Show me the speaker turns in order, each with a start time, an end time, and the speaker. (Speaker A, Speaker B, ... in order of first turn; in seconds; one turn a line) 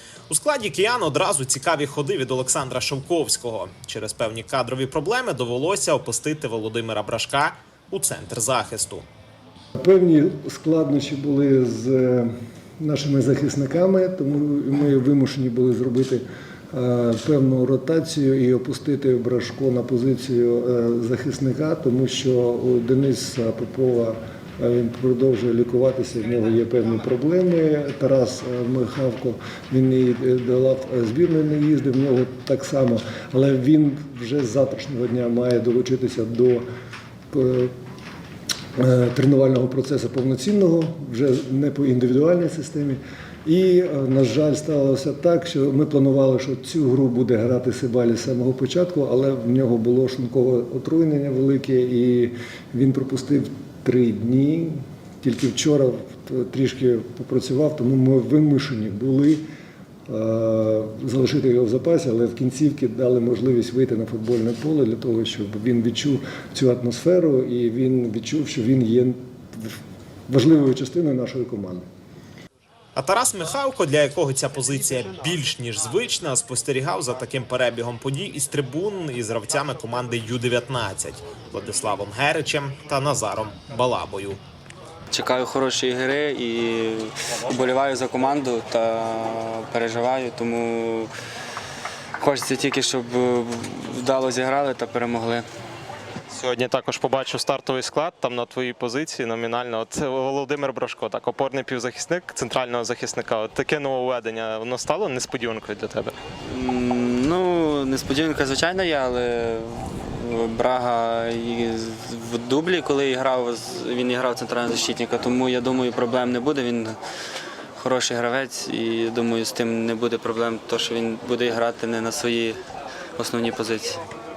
Speaker A: 0.3-9.1
Speaker B: 9.8-36.6
Speaker B: 37.3-37.7
Speaker B: 38.8-59.4
Speaker B: 60.1-69.8
Speaker B: 70.3-71.8
Speaker A: 73.0-84.4
Speaker C: 85.1-91.1
Speaker C: 92.2-95.5
Speaker D: 96.3-106.1
Speaker C: 106.5-117.0
Speaker C: 117.8-122.6
Speaker C: 123.2-124.0